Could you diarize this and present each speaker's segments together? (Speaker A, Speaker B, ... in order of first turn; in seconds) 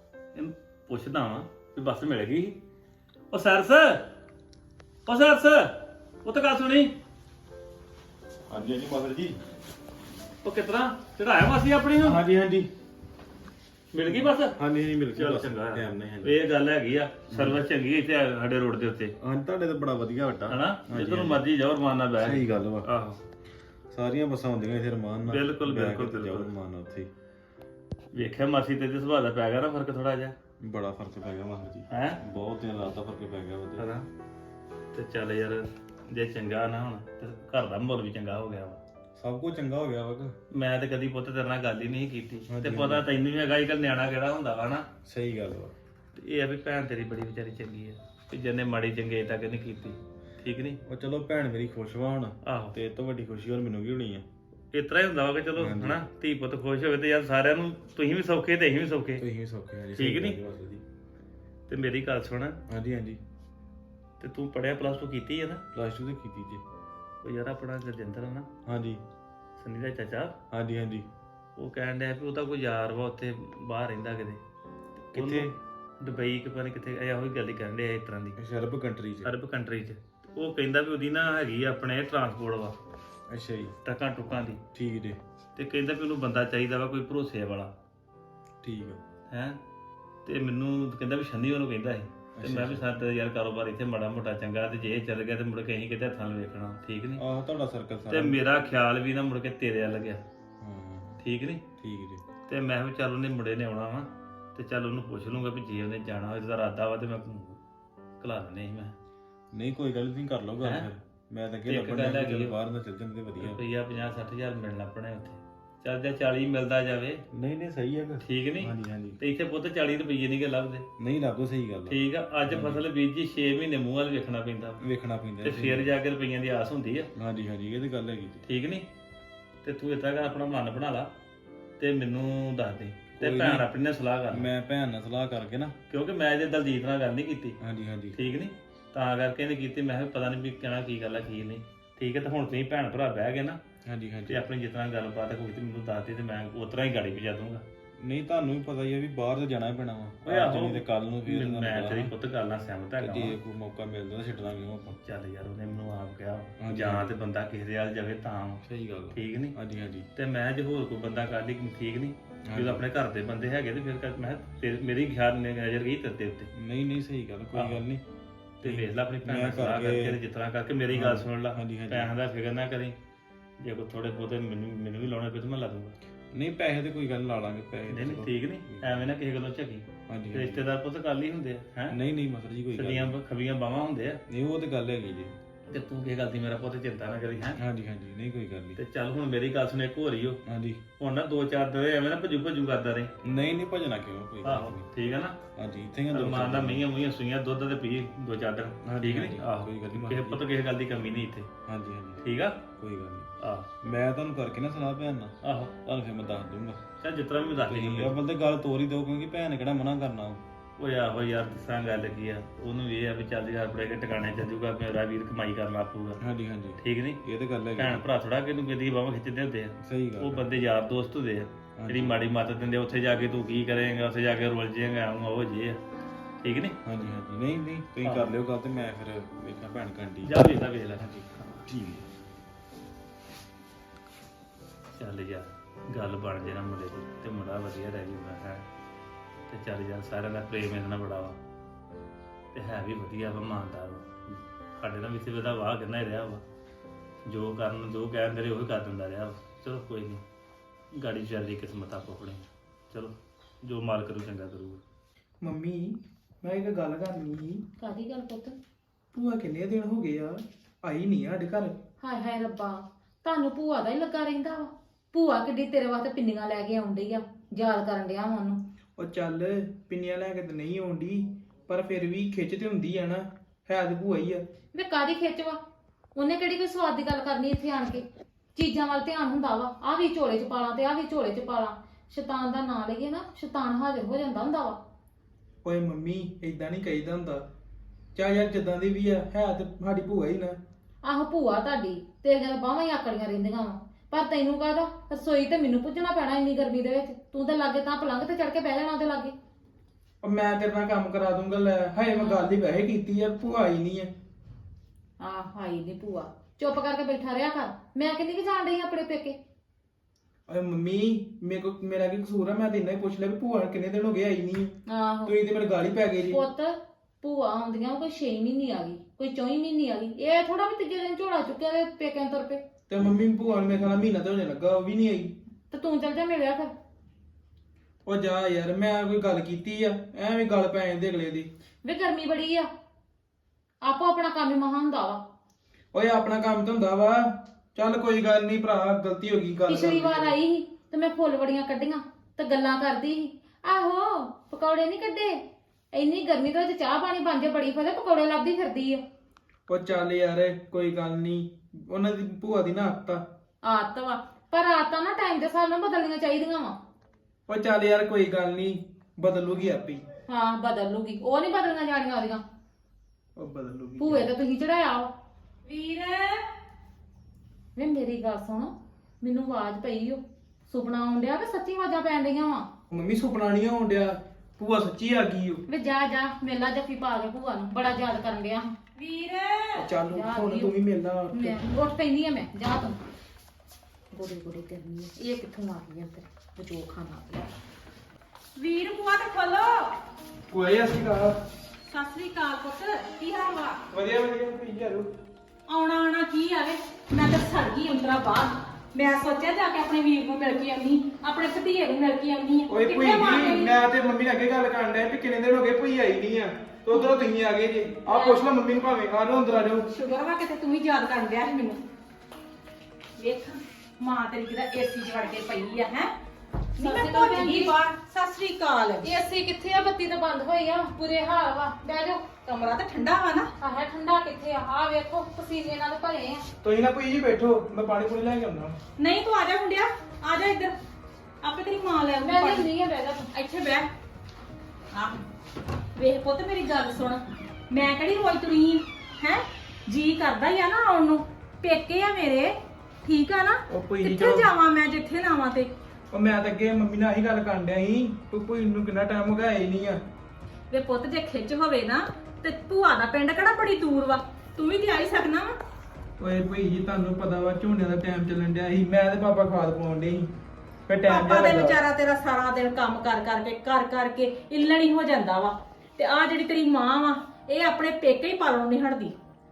Speaker A: 0.3-2.6, 3.3-4.0, 5.1-5.7, 6.2-6.9, 10.4-12.2, 13.9-14.6, 15.1-19.1, 20.5-23.2, 25.2-26.5, 28.1-30.4, 31.9-32.2, 33.8-34.1, 34.9-38.8, 40.5-44.9, 46.1-50.8, 52.4-52.7, 54.7-59.2, 59.9-60.4, 61.7-62.6, 64.2-65.6, 67.2-68.5, 69.6-70.4, 71.6-74.4, 75.1-78.4, 79.2-82.8, 83.8-84.6, 85.6-87.7, 89.3-89.6, 90.3-97.2, 98.1-100.2, 101.2-101.6, 102.5-107.6, 108.2-109.0, 110.6-110.9, 111.7-112.6, 113.4-117.2, 118.2-120.8, 121.9-124.8, 125.4-127.1, 128.4-128.9, 129.6-131.1, 131.8-134.5, 135.9-137.6, 138.1-143.6, 144.3-147.6, 150.2-153.4, 155.0-158.6, 159.1-159.6, 160.2-166.5, 167.5-167.8, 168.6-173.0, 173.6-175.9, 177.9-182.0, 182.7-184.2, 185.7-187.6, 188.8-190.4, 191.0-193.1, 194.4-195.4, 196.1-201.5, 202.2-202.6, 203.4-203.7, 205.4-205.7, 207.0-208.1, 210.8-216.2, 216.8-217.2, 217.8-225.8, 226.4-226.8, 228.0-228.3, 230.2-231.1, 235.0-238.6, 239.5-241.4, 242.5-246.4, 247.2-250.2, 250.9-254.8
Speaker B: 8.5-9.4, 12.0-12.7, 14.1-16.3, 17.3-17.6, 19.2-21.4, 22.2-22.9, 23.9-27.1, 30.6-33.9, 39.2-40.3, 42.5-43.1, 45.0-45.7, 50.9-54.2, 55.5-56.0, 59.2-60.8, 62.7-63.2, 65.7-66.6, 68.7-69.0, 70.5-71.1, 75.1-75.5, 78.4-79.3, 83.3-83.8, 84.7-85.2, 88.6-89.0, 92.3-92.9, 97.2-98.4, 100.6-101.2, 101.8-102.2, 109.5-113.6, 117.3-119.2, 121.0-122.8, 124.8-125.9, 127.2-128.4, 133.2-133.7, 134.3-135.8, 137.6-138.2, 143.9-144.4, 148.0-152.1, 153.0-155.0, 156.6-157.1, 158.6-160.1, 162.5-162.8, 166.6-168.0, 168.6-170.2, 170.9-172.1, 176.3-179.1, 180.1-180.7, 181.9-183.2, 184.3-185.3, 187.6-188.8, 190.5-190.8, 193.2-194.9, 195.6-196.8, 198.8-200.4, 201.7-203.3, 203.8-206.8, 207.6-210.4, 216.2-218.1, 219.8-220.5, 221.8-222.2, 226.8-230.4, 231.0-232.1
Speaker C: 255.4-257.6, 259.1-261.8, 269.0-274.4, 285.6-287.4, 288.1-290.6, 300.2-304.1, 310.5-314.7, 315.2-316.4, 322.9-325.4, 328.1-331.5, 335.9-340.3, 349.7-353.2, 357.5-360.1, 363.4-364.3, 372.9-375.6, 379.8-381.6, 390.5-391.4, 393.9-395.1, 402.7-409.9, 426.6-428.8, 443.7-444.5, 446.1-450.0, 456.2-460.3, 460.9-461.8
Speaker D: 257.8-258.6, 262.0-268.6, 274.7-275.6, 276.1-278.1, 278.6-284.8, 291.0-299.4, 302.1-302.5, 305.2-309.4, 314.9-315.4, 316.3-322.6, 325.7-326.7, 331.9-332.7, 333.8-335.2, 339.7-345.4, 345.9-349.0, 353.6-356.8, 360.3-362.4, 364.0-365.1, 367.8-372.7, 375.7-378.8, 380.1-380.7, 381.3-383.0, 384.1-387.5, 416.8-417.7, 419.0-422.3, 423.6-426.4, 432.2-433.3
Speaker E: 365.7-366.4, 379.0-379.9, 388.6-389.9, 391.9-393.8, 395.7-403.8, 408.1-408.4, 409.9-411.8, 413.2-416.1, 416.8-419.1, 422.4-423.5, 429.0-430.7, 431.4-432.7, 433.3-433.9, 434.9-435.2, 435.9-442.5, 443.0-445.7, 450.7-455.5, 461.1-469.1